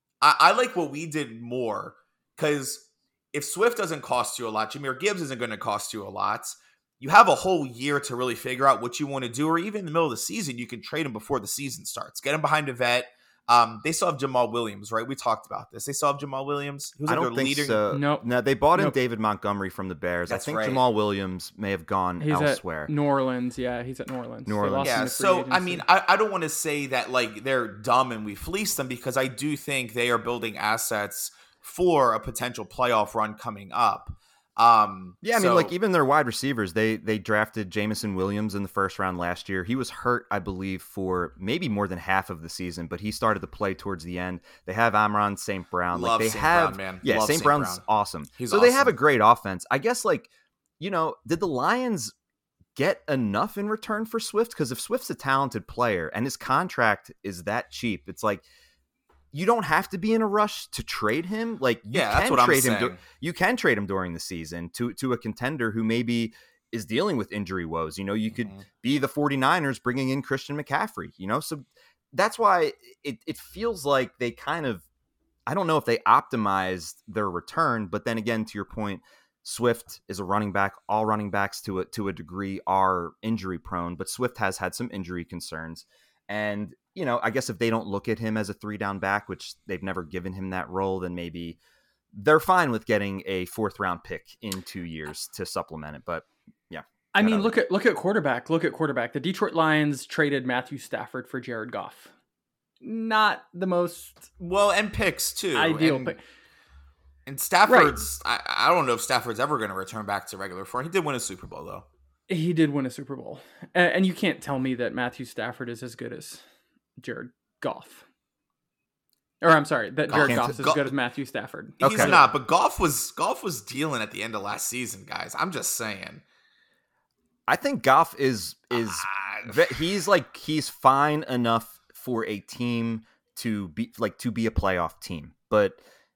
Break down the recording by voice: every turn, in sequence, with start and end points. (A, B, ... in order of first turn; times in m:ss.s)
0:00.2-0:17.8 A
0:17.1-0:22.9 B
0:17.9-0:19.0 C
0:20.3-0:20.8 A
0:22.2-0:25.8 C
0:24.5-0:24.9 B
0:24.8-0:35.7 A
0:35.2-0:52.1 B
0:45.9-0:48.9 A
0:52.8-0:58.4 B
0:59.3-1:14.8 B
1:01.9-1:03.0 A
1:15.5-1:31.6 B
1:32.1-1:37.5 B
1:37.1-1:42.1 C
1:42.8-1:44.3 C
1:44.4-1:46.2 A
1:45.6-1:46.2 C
1:47.3-1:51.8 A
1:47.7-1:48.0 C
1:52.3-1:56.4 C
1:57.0-1:58.0 C
1:59.4-2:02.3 C
2:00.1-2:00.6 B
2:00.1-2:00.9 A
2:01.8-2:06.2 A
2:01.8-2:02.2 B
2:07.5-2:15.8 B
2:08.7-2:09.8 A